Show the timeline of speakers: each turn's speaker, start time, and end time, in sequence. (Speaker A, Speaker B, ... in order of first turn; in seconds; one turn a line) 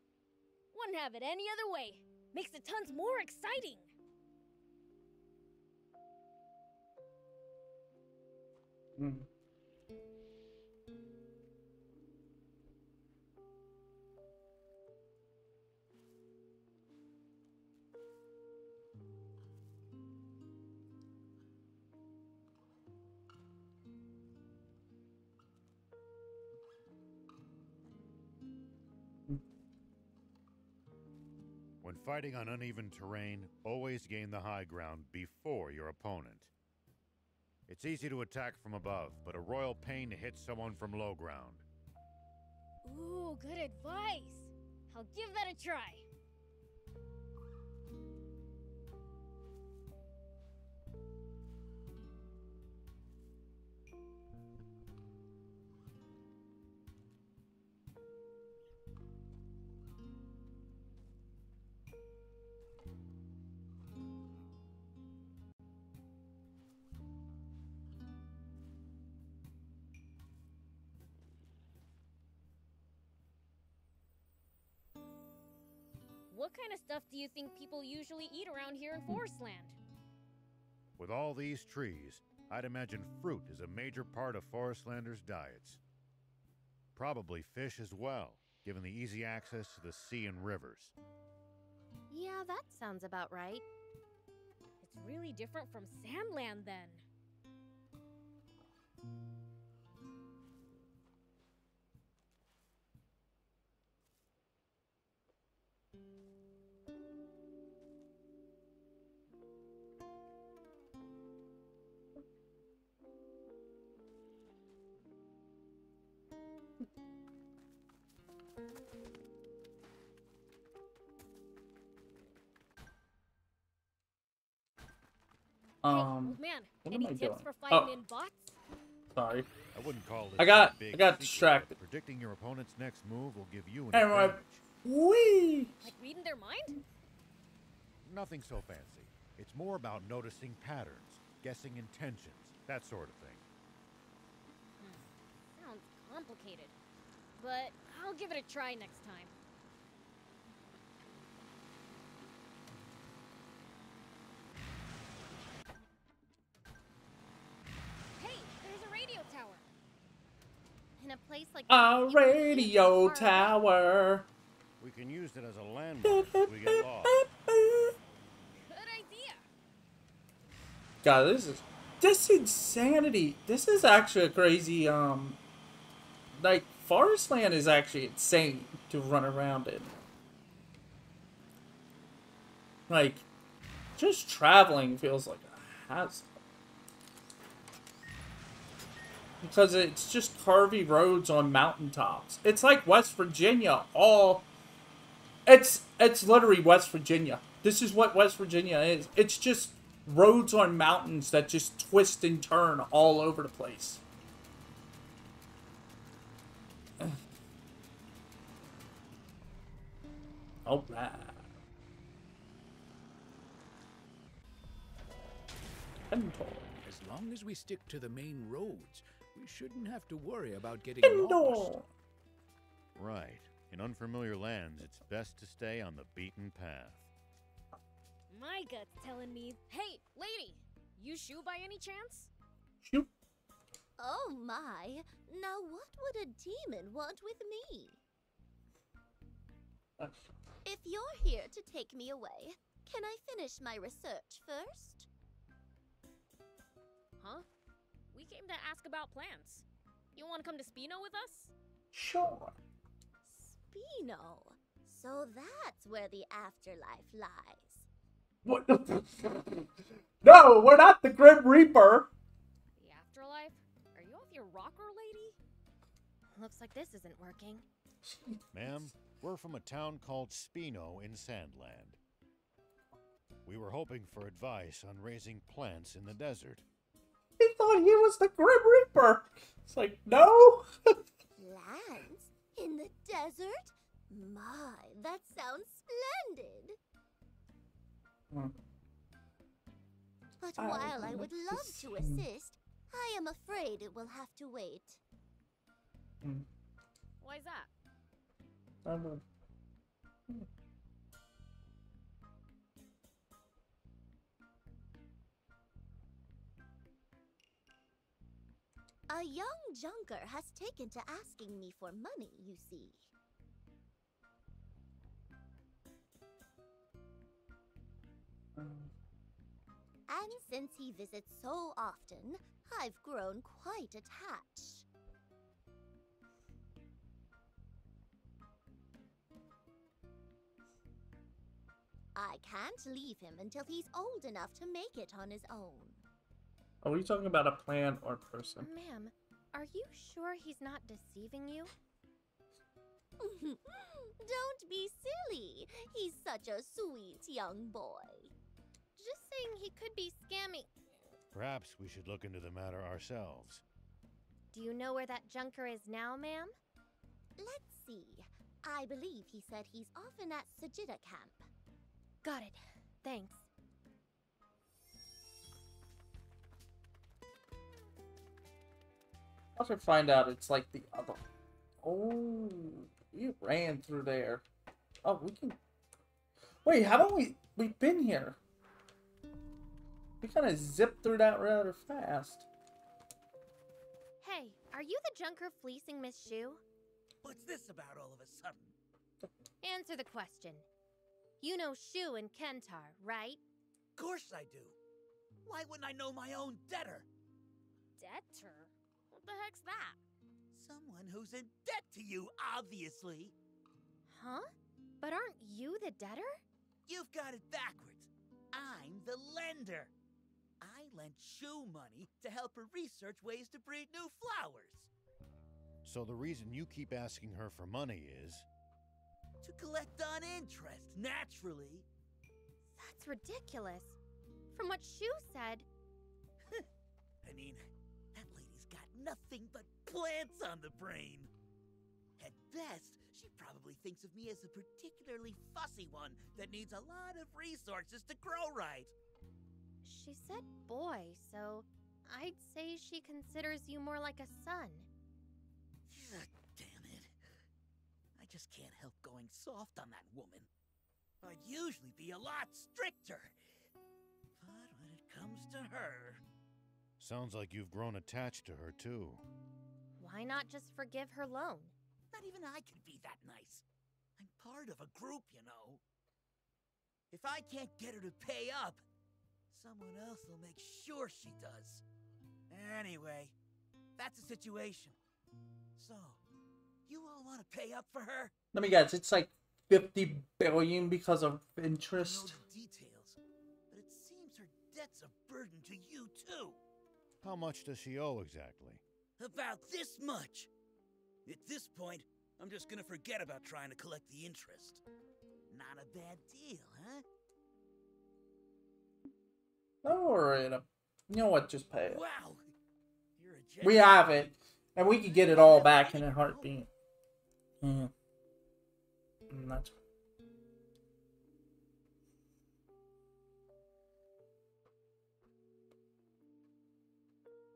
Speaker A: 0.7-3.9
Speaker B: 9.0-9.3
Speaker C: 31.8-36.5
Speaker C: 37.7-41.6
Speaker A: 42.8-46.0
Speaker A: 76.3-79.8
Speaker C: 81.0-85.8
Speaker C: 86.9-90.9
Speaker D: 92.1-93.6
Speaker A: 94.8-97.0
Speaker B: 125.8-127.9
Speaker A: 125.9-128.6
Speaker B: 129.1-129.5
Speaker C: 129.7-134.6
Speaker B: 130.4-131.8
Speaker B: 133.9-135.9
Speaker A: 135.8-136.8
Speaker C: 138.0-143.4
Speaker A: 144.8-146.7
Speaker A: 147.3-149.3
Speaker A: 158.2-159.7
Speaker D: 161.0-163.4
Speaker B: 161.7-164.3
Speaker C: 164.8-167.2
Speaker B: 166.0-167.9
Speaker A: 168.6-169.5
Speaker B: 171.0-175.4
Speaker B: 176.3-179.9
Speaker B: 182.9-183.2
Speaker B: 184.0-186.3
Speaker B: 189.4-194.5
Speaker B: 195.5-204.0
Speaker B: 210.7-211.4
Speaker B: 216.1-216.7
Speaker E: 216.8-221.7
Speaker B: 221.0-221.9
Speaker C: 222.9-227.1
Speaker A: 228.3-232.3
Speaker B: 232.8-233.1
Speaker F: 234.0-238.0
Speaker B: 240.0-240.3
Speaker F: 240.6-245.1
Speaker A: 247.2-247.4
Speaker A: 248.1-249.6
Speaker A: 250.2-251.5
Speaker B: 251.9-252.6
Speaker F: 253.2-257.9
Speaker B: 258.4-259.7
Speaker B: 260.2-262.1
Speaker A: 262.8-265.4
Speaker D: 266.3-267.6
Speaker B: 268.0-268.4
Speaker C: 268.5-272.0
Speaker C: 273.4-276.6
Speaker B: 277.4-280.9
Speaker F: 281.4-286.8
Speaker F: 290.4-295.0
Speaker B: 290.6-292.2
Speaker A: 297.2-297.7
Speaker B: 298.8-299.2
Speaker F: 309.1-313.1
Speaker B: 318.6-318.9
Speaker F: 320.1-324.9
Speaker F: 332.1-336.0
Speaker B: 336.8-338.7
Speaker D: 338.6-341.7
Speaker F: 343.2-348.3
Speaker D: 349.0-350.7
Speaker C: 351.3-353.6
Speaker D: 354.5-356.5
Speaker F: 357.4-361.5
Speaker D: 362.2-363.4
Speaker B: 369.6-371.2
Speaker B: 371.8-374.4
Speaker B: 375.0-375.6
Speaker B: 376.6-378.4
Speaker B: 380.2-382.5
Speaker D: 384.2-386.6
Speaker G: 387.2-388.8
Speaker D: 389.6-390.6
Speaker D: 391.4-393.4
Speaker G: 393.9-394.8
Speaker G: 395.4-397.1
Speaker A: 398.0-400.0
Speaker G: 400.5-403.3
Speaker D: 404.1-404.5
Speaker D: 405.0-406.4
Speaker G: 406.9-409.9
Speaker G: 410.6-414.9
Speaker C: 415.8-418.5
Speaker G: 419.4-421.9
Speaker D: 422.7-424.0
Speaker D: 424.5-425.7
Speaker G: 427.2-431.3
Speaker G: 432.2-438.9
Speaker D: 439.8-444.9
Speaker G: 445.9-447.1
Speaker G: 448.1-450.5
Speaker G: 451.2-453.4
Speaker G: 454.4-456.2
Speaker C: 457.0-459.2
Speaker D: 460.0-461.7
Speaker G: 462.1-463.6
Speaker G: 464.2-465.8
Speaker G: 467.1-468.8
Speaker G: 469.5-471.8
Speaker G: 472.5-473.3
Speaker G: 474.0-475.0
Speaker G: 475.8-476.2
Speaker G: 476.9-478.3
Speaker B: 478.5-482.4
Speaker G: 481.9-483.2
Speaker G: 483.7-486.6
Speaker C: 487.2-488.8
Speaker G: 489.2-490.5
Speaker G: 491.2-494.8
Speaker G: 495.5-497.0
Speaker B: 499.8-502.0
Speaker G: 501.9-502.5
Speaker G: 503.2-504.3
Speaker B: 503.6-506.7
Speaker G: 504.8-506.5
Speaker B: 507.6-507.9
Speaker B: 509.3-509.7